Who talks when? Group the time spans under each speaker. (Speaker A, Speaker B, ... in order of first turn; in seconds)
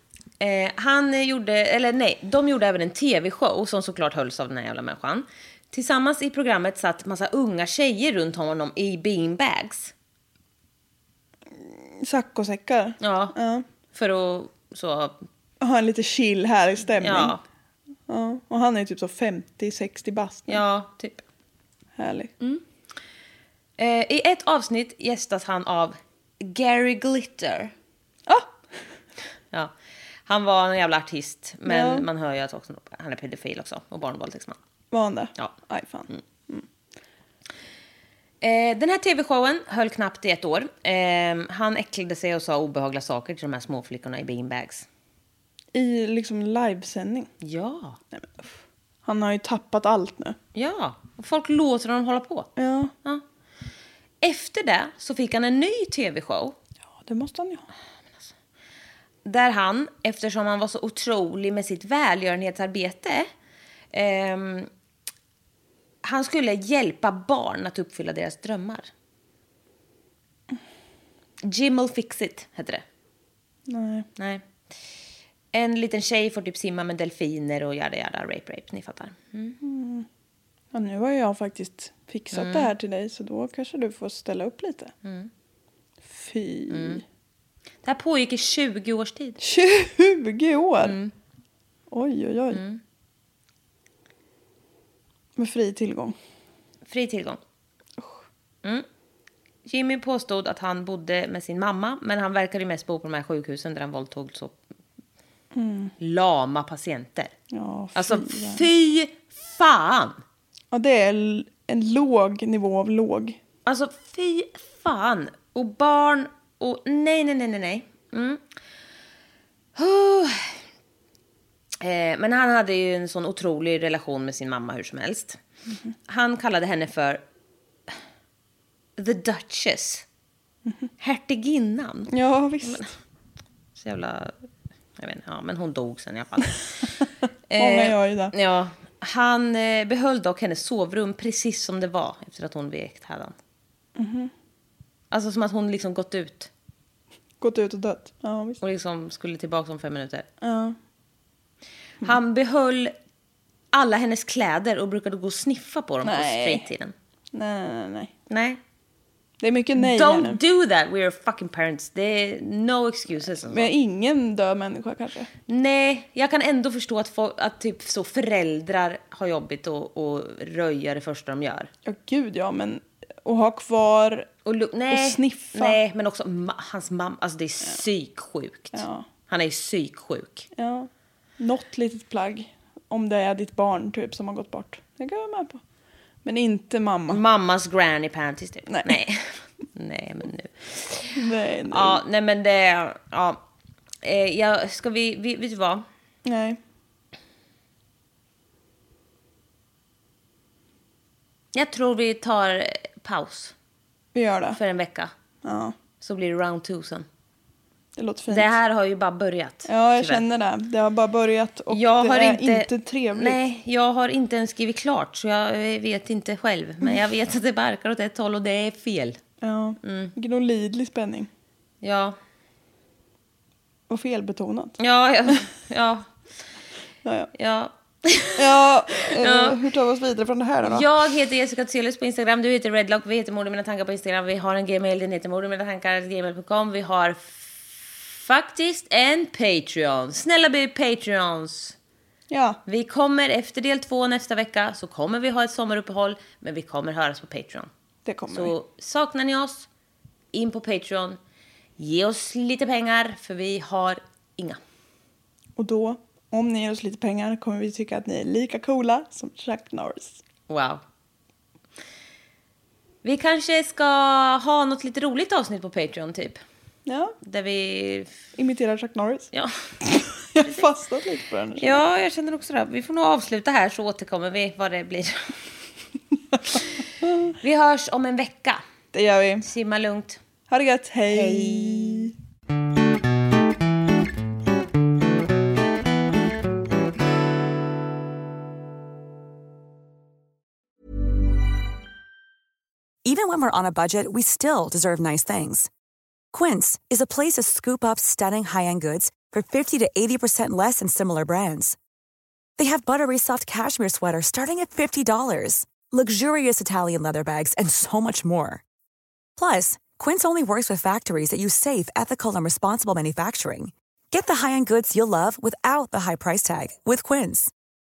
Speaker A: 0.4-9.9, 13.0-13.3, 13.9-15.2, 17.0-17.4, 20.5-21.2, 23.8-27.7, 30.3-34.6, 38.4-44.9, 47.4-48.0, 50.5-52.5, 54.2-56.5, 59.2-63.3, 63.9-64.7, 66.0-68.9, 71.4-72.8, 74.2-74.5, 75.5-79.6, 82.3-82.7, 85.0-85.3, 86.7-87.0, 87.8-89.4, 90.8-91.1, 92.5-92.8, 96.9-97.4, 99.7-104.6, 106.0-107.3, 108.0-110.2, 113.7-118.4, 119.8-120.6, 121.8-125.4, 126.1-127.2, 129.0-130.1, 131.0-132.1, 132.6-132.9, 133.8-134.4, 135.0-143.3, 145.1-146.5, 148.6-150.3, 152.0-152.9, 153.7-156.9, 158.3-158.6, 159.8-163.7, 165.5-171.7, 174.4-180.5, 187.1-193.4, 194.0-195.8, 201.5-203.5, 204.5-205.1, 206.0-207.1, 208.3-210.2, 211.7-219.2, 219.8-220.1, 221.8-222.2, 224.8-226.1, 227.3-229.6, 230.6-241.8, 242.7-247.7, 248.3-249.7, 250.3-251.2, 251.8-254.6, 260.5-260.8, 263.0-266.4, 267.2-268.1, 269.3-269.8, 271.6-275.6, 276.5-276.9, 277.4-278.6, 279.4-280.2, 281.1-282.1
Speaker B: 11.6-13.7, 15.6-17.4, 18.1-20.6, 22.0-22.6, 28.3-28.9, 31.7-32.1, 34.9-36.7, 45.7-47.3, 48.1-50.4, 52.6-52.9, 57.0-57.7, 73.7-74.1, 79.6-80.1, 80.7-84.9, 86.0-87.0, 89.4-91.0, 91.9-92.6, 95.4-96.2, 98.0-98.2, 105.5-106.0, 107.5-108.7, 110.7-113.4, 132.1-132.9, 137.6-138.3, 144.0-144.3, 147.4-148.6, 150.4-150.8, 156.0-156.7, 157.3-158.1, 159.4-160.4, 163.4-165.3, 171.8-174.3, 174.9-175.8, 178.7-179.1, 180.5-185.6, 186.2-187.2, 188.7-189.0, 191.1-192.0, 196.2-196.6, 204.1-204.6, 205.4-205.8, 208.0-208.5, 209.7-213.4, 219.4-221.3, 223.9-225.4, 227.0-227.3, 228.4-230.9, 242.3-242.6, 248.1-248.5, 255.6-260.2, 266.9-267.2, 268.4-269.3, 269.8-271.8, 278.9-279.5, 280.5-282.1
Speaker C: 293.0-295.7, 296.3-301.8, 302.6-308.6, 309.4-317.5